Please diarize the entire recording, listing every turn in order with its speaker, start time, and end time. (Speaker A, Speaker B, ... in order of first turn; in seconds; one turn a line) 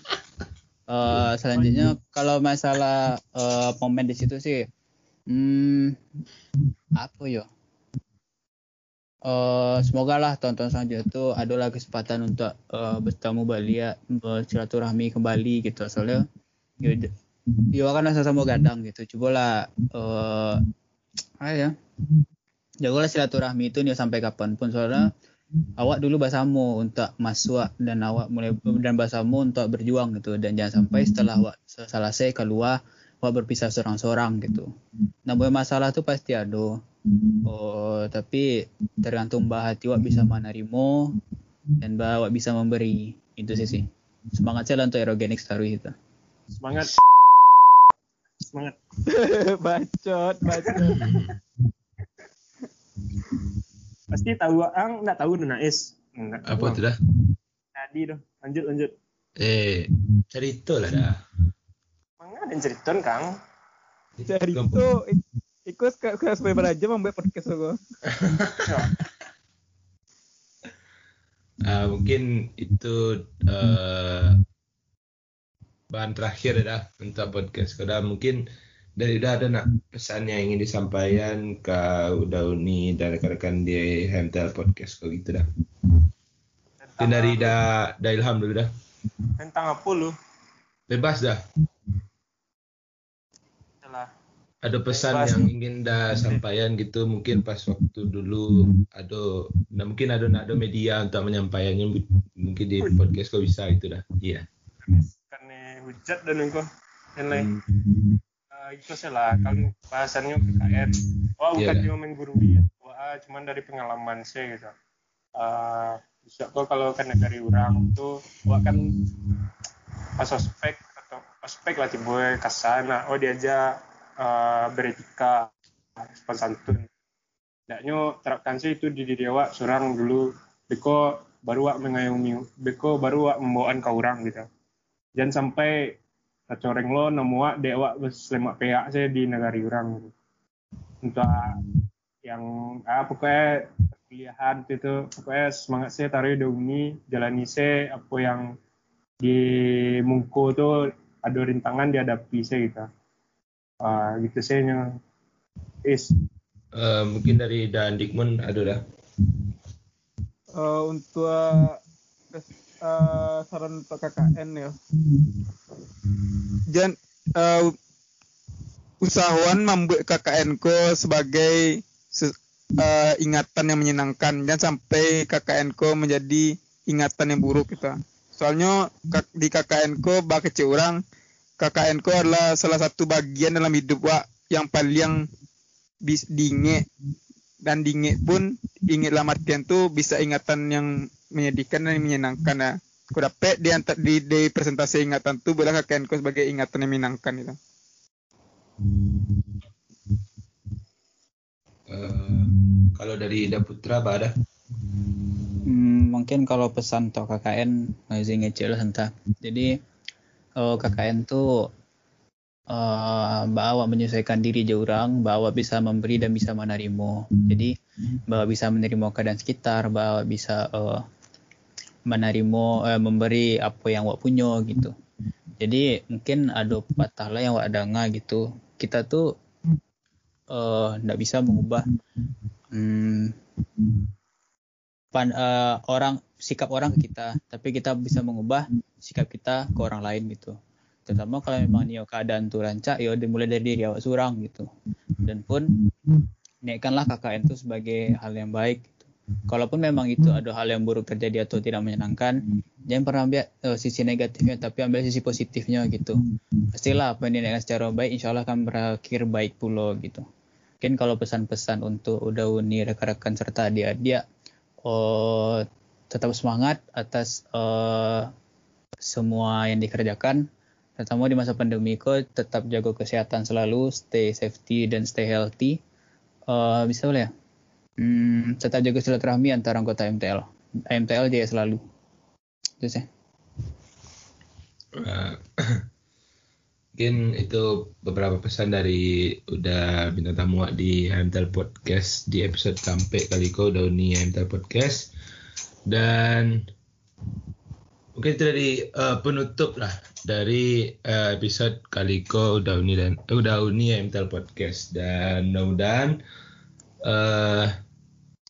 Speaker A: 0.9-4.7
Speaker B: 1.6-1.9
Speaker A: 5.3-6.0
Speaker A: 7.0-7.5
Speaker A: 9.2-16.2
Speaker A: 16.8-17.1
Speaker A: 17.7-20.6
Speaker A: 21.4-21.7
Speaker A: 22.8-25.1
Speaker A: 25.8-34.7
Speaker A: 35.2-36.8
Speaker A: 37.4-38.5
Speaker A: 39.0-41.1
Speaker A: 41.8-45.9
Speaker B: 46.6-47.0
Speaker B: 48.5-48.8
Speaker C: 49.1-51.3
Speaker B: 50.7-50.9
Speaker D: 50.9-51.4
Speaker B: 54.1-56.8
Speaker D: 56.5-57.0
Speaker B: 57.7-58.9
Speaker D: 59.4-61.2
Speaker B: 62.2-63.3
Speaker D: 64.2-64.9
Speaker C: 64.3-67.8
Speaker D: 68.1-68.7
Speaker D: 71.6-74.4
Speaker D: 75.9-78.4
Speaker D: 79.0-85.5
Speaker B: 86.8-87.6
Speaker D: 87.0-88.7
Speaker B: 89.4-90.1
Speaker D: 90.9-91.4
Speaker B: 93.8-94.1
Speaker D: 94.6-104.5
Speaker B: 94.9-95.5
Speaker B: 104.9-107.5
Speaker D: 107.3-108.1
Speaker B: 108.5-114.7
Speaker D: 111.5-111.9
Speaker B: 115.4-119.0
Speaker B: 120.2-126.9
Speaker B: 127.7-134.4
Speaker B: 135.2-136.0
Speaker B: 136.5-140.1
Speaker B: 141.0-141.6
Speaker B: 142.2-148.4
Speaker B: 149.2-152.9
Speaker B: 153.8-154.8
Speaker B: 155.8-156.1
Speaker D: 156.7-158.8
Speaker C: 160.5-161.8
Speaker C: 162.3-164.8
Speaker C: 166.7-167.8
Speaker C: 169.0-181.0
Speaker C: 181.6-185.2
Speaker C: 186.0-186.9
Speaker C: 187.6-197.6
Speaker D: 199.0-199.4
Speaker D: 201.9-204.3
Speaker A: 205.7-209.8
Speaker A: 210.6-211.7
Speaker A: 212.7-217.7
Speaker A: 218.3-221.0
Speaker A: 222.1-224.9
Speaker A: 225.6-229.2
Speaker A: 230.5-231.8
Speaker A: 232.7-233.4
Speaker A: 235.1-240.6
Speaker A: 241.1-244.7
Speaker A: 245.2-245.7
Speaker A: 246.6-256.2
Speaker A: 256.7-260.2
Speaker A: 260.8-264.2
Speaker A: 264.8-268.3
Speaker A: 269.0-270.4
Speaker A: 271.0-275.8
Speaker A: 276.5-277.3
Speaker A: 278.0-281.8
Speaker A: 282.8-283.1
Speaker D: 285.0-285.9
Speaker D: 287.0-295.1
Speaker D: 295.9-296.6
Speaker D: 298.1-306.2
Speaker D: 307.0-307.7